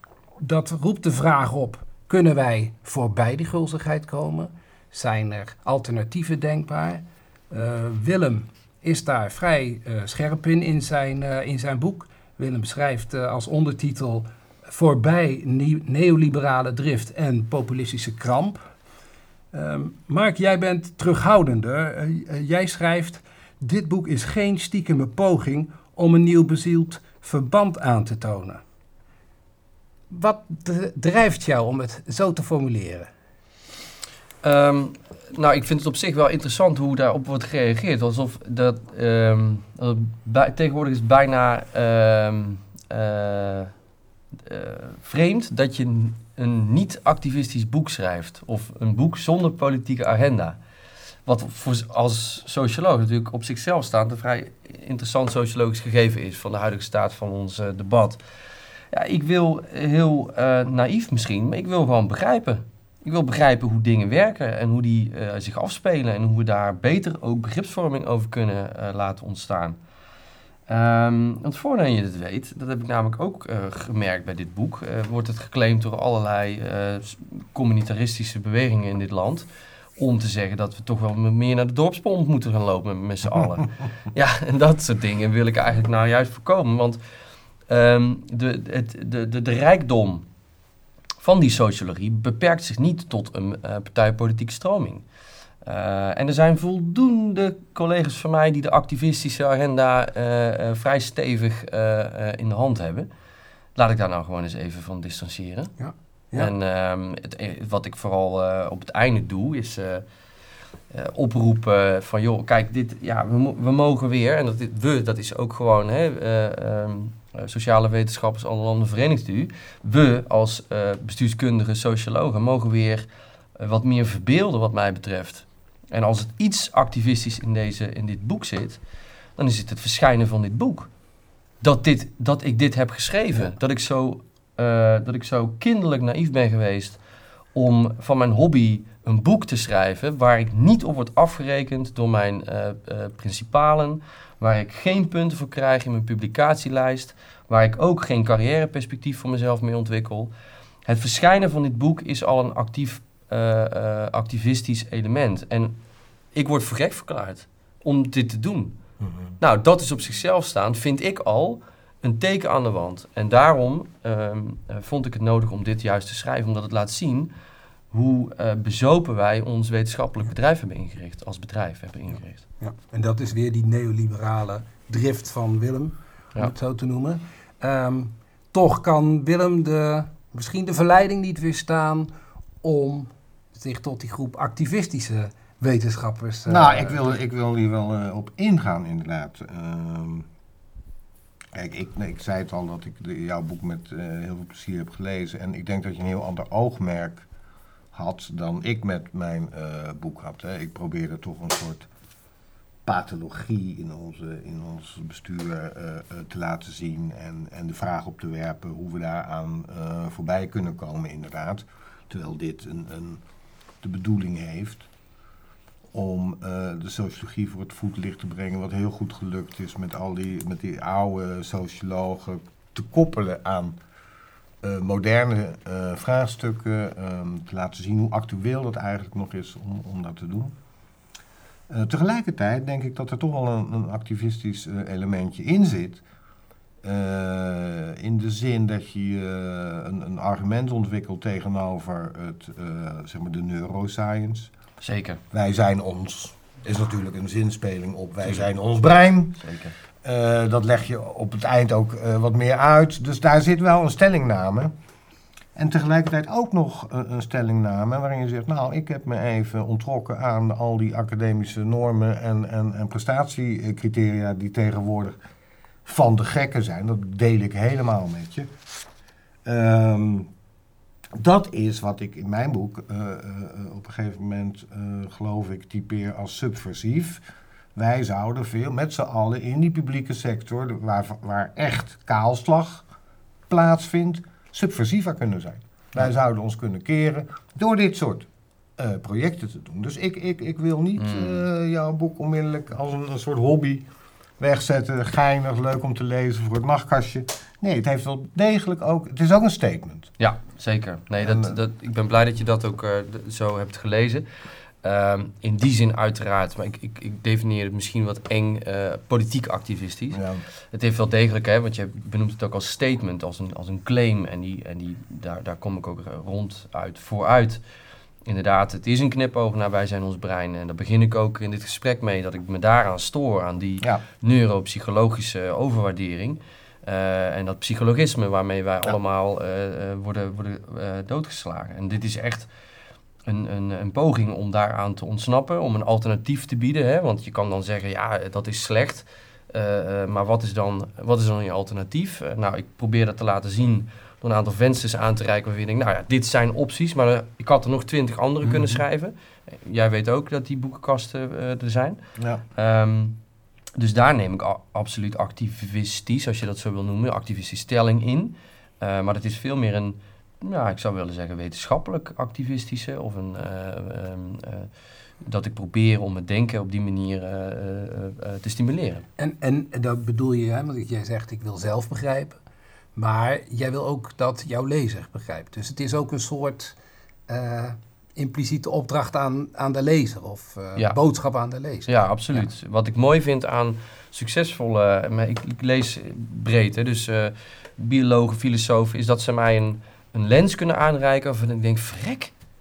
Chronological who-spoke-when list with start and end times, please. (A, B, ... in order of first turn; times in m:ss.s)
0:00.4-0:18.7 A
0:19.5-0:28.6 A
0:30.1-0:33.1 A
0:34.4-0:43.7 B
0:44.4-0:50.6 B
0:51.2-0:58.2 B
0:58.9-1:09.8 B
1:10.7-1:19.4 B
1:20.0-1:27.0 B
1:27.7-1:30.2 B
1:31.2-1:35.0 B
1:35.6-1:43.1 B
1:43.7-1:45.8 B
1:45.8-1:46.5 A
1:46.3-1:50.0 B
1:50.9-2:08.8 B
2:09.4-2:10.9 B
2:11.6-2:17.0 B
2:17.5-2:30.3 B
2:30.8-2:35.8 B
2:36.3-2:38.8 B
2:39.0-2:39.3 C
2:39.4-2:47.3 B
2:47.9-2:52.4 B
2:52.6-3:02.1 A
3:02.6-3:07.0 A
3:06.5-3:10.3 C
3:11.5-3:17.3 C
3:17.9-3:21.9 C
3:22.8-3:33.2 C
3:33.8-3:34.9 C
3:35.9-3:43.8 C
3:44.6-3:50.6 C
3:51.7-3:56.0 C
3:56.8-4:04.5 C
4:04.8-4:05.2 B
4:05.3-4:09.4 C
4:09.4-4:09.7 B
4:10.0-4:14.7 C
4:15.6-4:25.2 C
4:25.8-4:28.5 C
4:29.4-4:30.3 C
4:31.2-4:37.2 C
4:37.8-4:42.8 C
4:43.5-4:53.9 C
4:51.0-4:51.4 B
4:54.4-5:00.1 C
5:00.2-5:04.2 B
5:01.2-5:01.6 C
5:04.8-5:17.6 B
5:10.1-5:10.4 C
5:18.2-5:32.5 B
5:33.2-5:52.0 B
5:48.4-5:48.7 A
5:52.2-5:52.4 C
5:52.5-5:53.2 B
5:53.8-6:04.7 B
6:05.2-6:09.1 B
6:09.2-6:12.4 A
6:13.0-6:16.8 A
6:17.3-6:22.4 A
6:21.9-6:32.3 B